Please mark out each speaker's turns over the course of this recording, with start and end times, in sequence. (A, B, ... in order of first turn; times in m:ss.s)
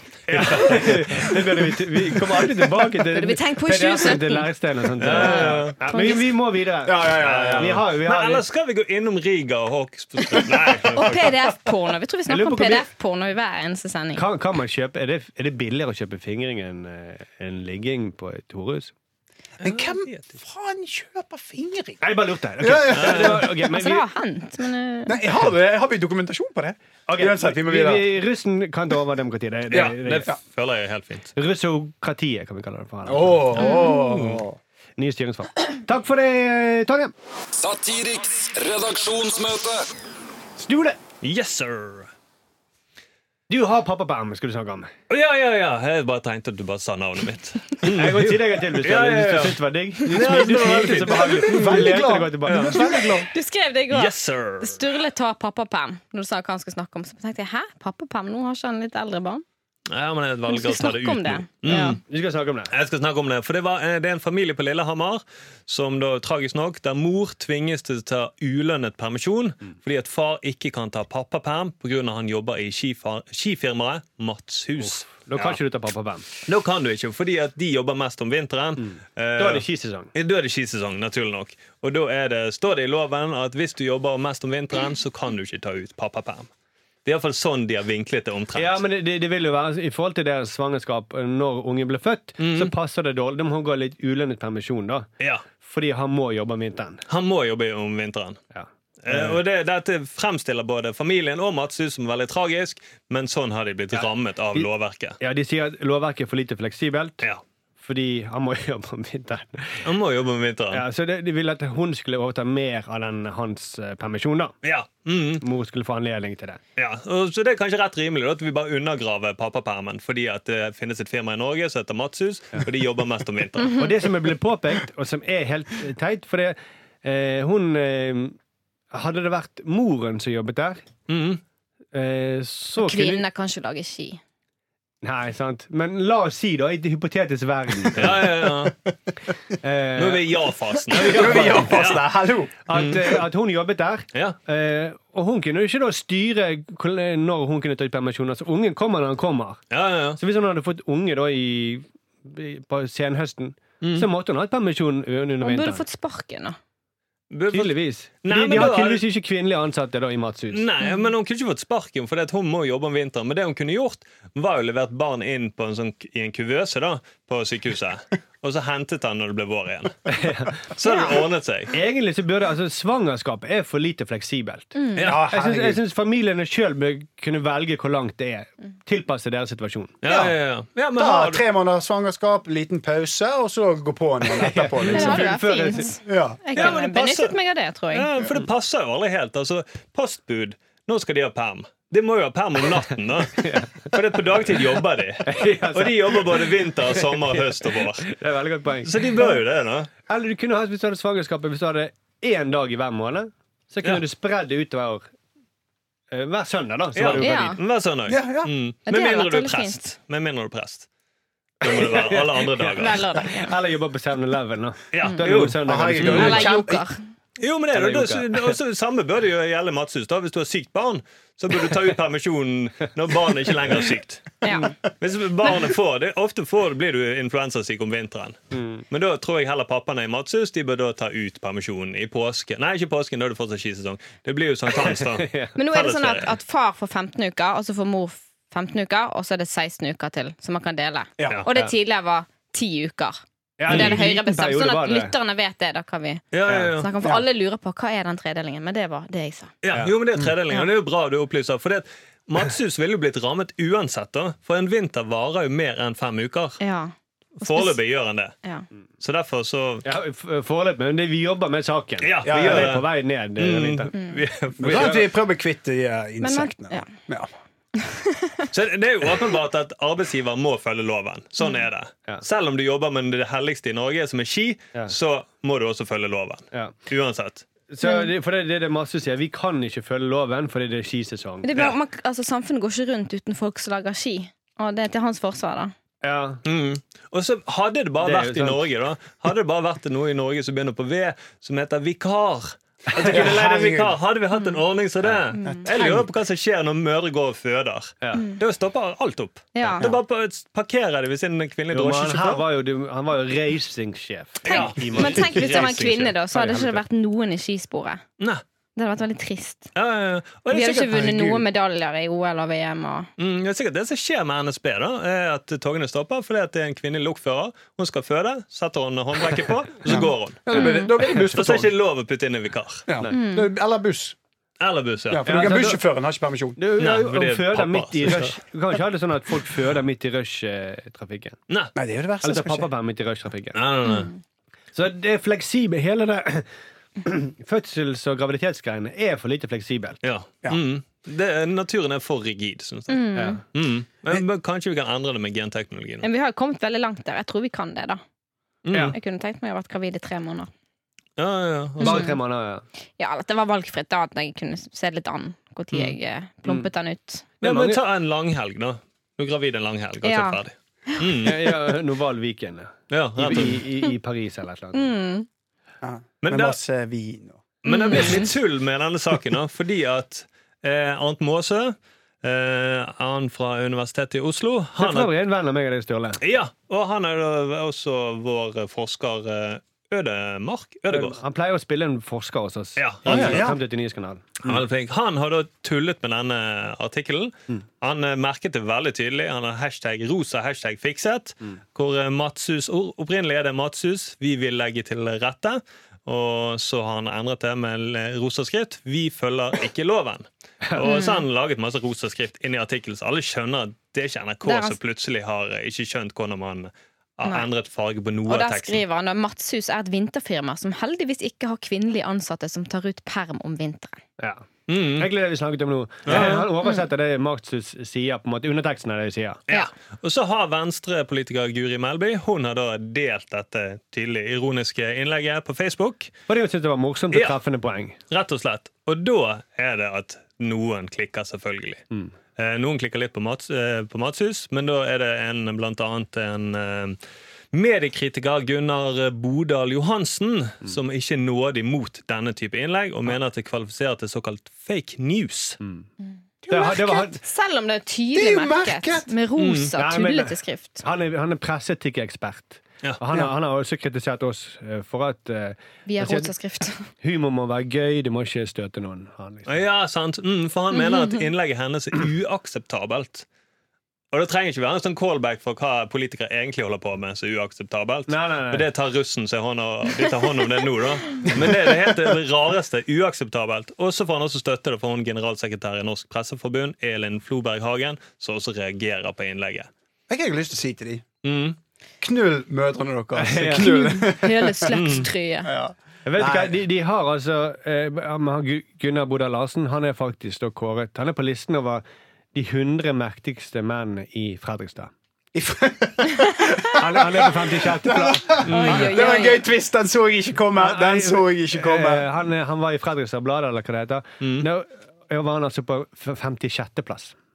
0:00.3-0:08.4 A
0:00.3-0:00.8 B
0:03.0-0:04.5 C
0:05.0-0:05.8 B
0:05.0-0:06.3 C
0:06.8-0:07.8 D
0:07.2-0:11.3 B
0:10.7-0:11.1 A
0:10.9-0:14.2 C
0:12.3-0:12.9 A
0:14.1-0:18.9 A
0:19.6-0:22.0 D
0:19.6-0:20.3 B
0:22.0-0:24.0 A
0:22.6-0:23.5 D
0:22.9-0:23.4 B
0:23.6-0:25.2 C
0:25.1-0:28.1 D
0:27.1-0:30.3 A
0:29.7-0:31.3 B
0:29.7-0:30.4 D
0:31.4-0:33.6 A
0:33.1-0:34.6 D
0:33.6-0:34.1 C
0:33.9-0:34.4 B
0:35.0-0:37.1 A
0:37.5-0:39.9 E
0:40.6-0:41.0 A
0:41.2-0:42.1 B
0:43.5-0:44.9 A
0:45.1-0:51.9 B
0:47.8-0:53.2 A
0:50.9-0:53.3 D
0:52.4-0:52.9 B
0:53.0-0:59.4 C
0:53.9-0:54.8 B
0:59.9-1:02.0 B
1:00.5-1:02.0 C
1:01.7-1:02.7 A
1:02.7-1:15.6 B
1:14.8-1:16.3 A
1:16.4-1:26.5 B
1:18.8-1:20.1 A
1:27.0-1:28.8 B
1:28.6-1:35.1 A
1:32.4-1:32.7 B
1:35.6-1:37.0 A
1:37.1-1:38.4 B
1:38.5-1:39.4 A
1:39.0-1:45.2 B
1:43.9-1:44.7 A
1:45.2-1:47.2 A
1:47.8-1:49.9 A
1:49.8-1:50.8 B
1:50.7-1:54.5 A
1:54.6-1:55.4 B
1:55.4-1:56.6 A
1:56.8-2:03.9 B
2:03.7-2:08.4 A
2:08.9-2:10.8 A
2:11.1-2:11.4 B
2:11.9-2:13.2 A
2:12.8-2:14.2 C
2:15.0-2:18.2 A
2:17.9-2:18.7 B
2:18.5-2:18.7 D
2:19.6-2:21.9 A
2:20.0-2:22.0 B
2:21.0-2:22.5 D
2:22.6-2:29.6 A
2:22.7-2:23.1 B
2:29.7-2:30.2 B
2:30.2-2:35.8 A
2:33.8-2:34.1 B
2:35.4-2:36.6 C
2:37.3-2:39.0 B
2:37.5-2:40.7 A
2:40.5-2:50.0 B
2:50.1-2:50.6 A
2:50.7-2:51.7 B
2:50.9-2:51.2 C
2:51.7-3:00.0 A
2:54.7-2:55.2 C
2:55.0-2:55.2 B
2:55.0-2:55.8 D
3:00.0-3:01.4 B
3:00.1-3:00.4 D
3:00.9-3:05.3 D
3:04.3-3:05.9 A
3:04.9-3:08.1 C
3:06.1-3:06.4 D
3:06.5-3:07.4 B
3:07.9-3:18.1 B
3:13.3-3:13.9 A
3:15.2-3:19.3 A
3:18.8-3:19.9 B
3:20.1-3:25.1 A
3:26.1-3:27.6 A
3:27.0-3:30.9 B
3:27.2-3:27.6 C
3:28.1-3:28.5 D
3:28.9-3:29.8 C
3:31.6-3:33.1 B
3:31.6-3:36.5 A
3:32.7-3:33.5 C
3:34.9-3:36.5 B
3:35.6-3:36.8 D
3:36.1-3:37.0 C
3:37.4-3:44.5 B
3:37.7-3:38.6 A
3:44.4-3:44.8 C
3:45.0-3:48.4 B
3:48.5-3:48.8 A
3:48.9-3:56.4 B
3:54.8-3:55.6 A
3:55.6-4:06.2 C
4:03.6-4:05.1 A
4:03.7-4:04.0 B
4:06.3-4:06.9 B
4:06.4-4:06.7 A
4:06.8-4:09.5 C
4:09.6-4:16.6 B
4:16.6-4:17.8 C
4:17.4-4:18.4 B
4:19.0-4:19.9 B
4:19.8-4:23.9 A
4:22.0-4:25.1 B
4:22.2-4:22.8 D
4:24.6-4:27.3 D
4:24.6-4:25.0 A
4:26.2-4:26.9 C
4:27.8-4:28.5 C
4:28.5-4:37.4 B
4:37.7-4:41.5 A
4:37.8-4:38.1 C
4:41.4-4:45.7 C
4:46.0-4:46.4 A
4:46.4-5:02.4 B
4:48.0-4:48.6 A
4:52.9-4:53.2 A
4:53.0-4:54.0 D
4:55.4-4:56.0 C
4:55.5-4:56.0 D
4:58.0-4:58.3 A
4:58.1-4:58.4 C
4:59.6-4:59.9 C
5:01.7-5:06.8 A
5:04.4-5:05.7 B
5:04.4-5:08.0 C
5:08.8-5:09.7 C
5:09.7-5:11.2 B
5:10.5-5:13.1 C
5:10.8-5:11.4 D
5:13.2-5:22.9 B
5:19.9-5:21.7 D
5:20.5-5:20.9 C
5:22.9-5:24.2 D
5:23.1-5:23.5 C
5:24.6-5:25.4 B
5:25.1-5:26.6 D
5:25.2-5:25.8 A
5:26.6-5:31.4 A
5:26.8-5:28.4 B
5:31.7-5:32.7 D
5:32.2-5:33.6 A
5:33.5-5:34.1 B
5:33.8-5:34.2 C
5:34.7-5:36.5 A
5:37.0-5:40.0 A
5:40.0-5:46.1 B
5:42.9-5:43.4 C
5:43.1-5:43.4 A
5:46.0-5:48.0 C
5:48.6-5:49.0 B
5:48.9-5:50.5 C
5:51.2-5:52.1 B
5:51.8-5:52.2 C
5:51.8-5:52.6 A
5:53.0-5:57.3 C
5:57.4-5:57.8 A
5:57.4-6:01.6 B
6:00.0-6:00.4 C
6:01.2-6:04.9 A
6:02.9-6:03.6 B
6:04.7-6:05.3 C
6:05.8-6:07.5 D
6:06.2-6:06.6 B
6:07.6-6:15.1 B
6:07.6-6:08.3 C
6:14.8-6:16.2 A
6:16.2-6:21.2 B
6:20.9-6:24.6 A
6:22.8-6:23.5 B
6:23.1-6:23.6 D
6:24.4-6:48.8 B
6:40.8-6:41.2 C
6:44.4-6:44.8 C
6:48.3-6:54.0 C
6:54.2-6:59.4 A
6:54.7-6:55.1 B
6:56.1-6:56.5 B
6:59.5-7:06.1 B
7:06.3-7:08.0 A
7:08.1-7:11.8 B
7:12.4-7:17.0 B
7:17.5-7:25.6 B
7:25.6-7:25.9 A
7:26.4-7:27.1 D
7:26.5-7:27.2 A
7:27.1-7:30.8 C
7:28.1-7:29.1 D
7:29.4-7:29.7 B
7:29.8-7:36.3 A
7:35.9-7:36.9 C
7:37.0-7:39.6 A
7:39.5-7:43.3 B
7:44.1-7:59.7 B
7:48.1-7:48.7 A
8:00.1-8:01.0 D
8:01.2-8:01.6 B
8:02.0-8:06.6 D
8:03.2-8:04.0 A
8:03.6-8:05.5 C
8:04.7-8:05.1 B
8:06.0-8:14.9 A
8:15.3-8:22.1 D
8:16.8-8:18.9 A
8:18.4-8:19.0 B
8:18.5-8:19.4 C
8:20.6-8:27.1 A
8:24.2-8:24.5 B